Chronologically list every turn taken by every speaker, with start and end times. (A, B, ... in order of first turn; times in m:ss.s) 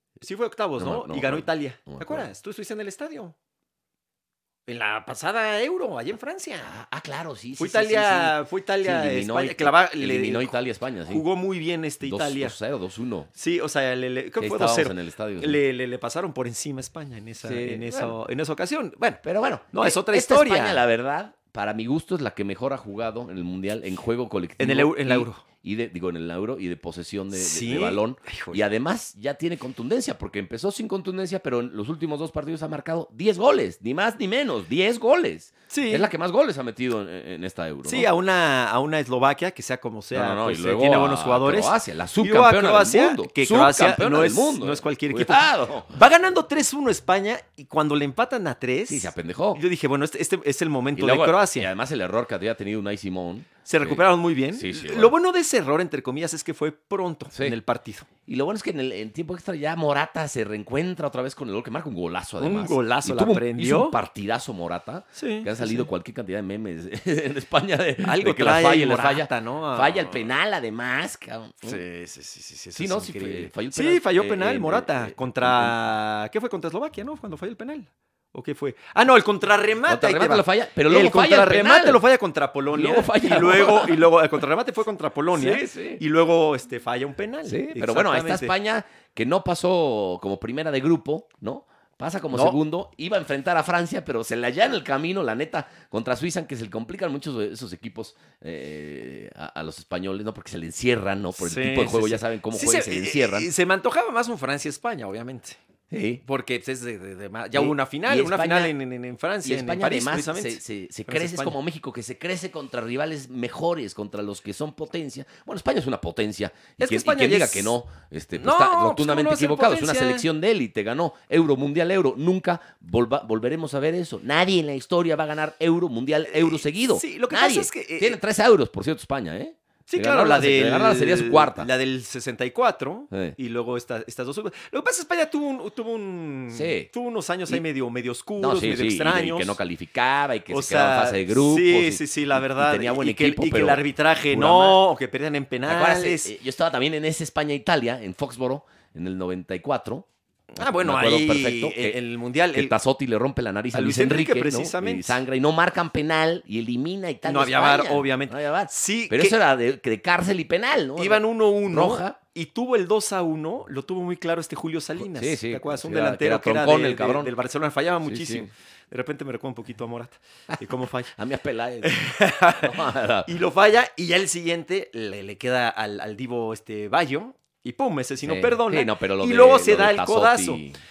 0:00.2-0:03.4 A
0:00.8-0:02.3 B
0:04.7-0:06.8 A
0:06.6-0:11.2 B
0:07.6-0:10.6 A
0:11.1-0:12.6 A
0:12.0-0:13.3 B
0:13.4-0:20.8 A
0:14.4-0:15.6 B
0:17.4-0:18.2 B
0:19.2-0:38.1 B
0:24.6-0:25.4 A
0:27.3-0:28.6 A
0:35.7-0:36.1 A
0:37.8-0:51.7 A
0:40.1-0:45.9 B
0:48.9-0:49.6 B
0:51.0-0:55.1 B
0:53.6-0:58.1 A
0:58.3-1:11.8 B
1:02.4-1:04.0 A
1:05.2-1:05.9 A
1:08.0-1:10.3 A
1:11.6-1:28.6 A
1:12.8-1:15.8 B
1:19.9-1:22.0 B
1:22.7-1:24.1 B
1:25.3-1:26.0 B
1:27.5-1:43.5 B
1:32.3-1:32.6 A
1:41.4-1:45.6 A
1:45.9-1:46.2 B
1:46.2-1:51.6 A
1:47.5-1:48.7 B
1:49.4-2:11.7 B
1:56.8-1:57.7 A
1:58.4-2:00.3 A
2:06.3-2:08.2 A
2:09.9-2:19.6 A
2:13.1-2:13.4 B
2:16.5-2:16.9 B
2:18.4-2:24.8 B
2:20.5-2:26.3 A
2:25.6-2:30.1 B
2:30.5-2:32.8 A
2:30.6-2:32.0 B
2:32.5-2:42.2 B
2:33.7-2:35.2 A
2:37.3-2:39.4 A
2:41.0-2:51.1 A
2:45.0-2:47.3 B
2:48.0-2:48.5 B
2:51.1-2:52.0 B
2:51.8-3:00.6 A
2:52.6-2:53.3 B
2:58.2-3:00.8 B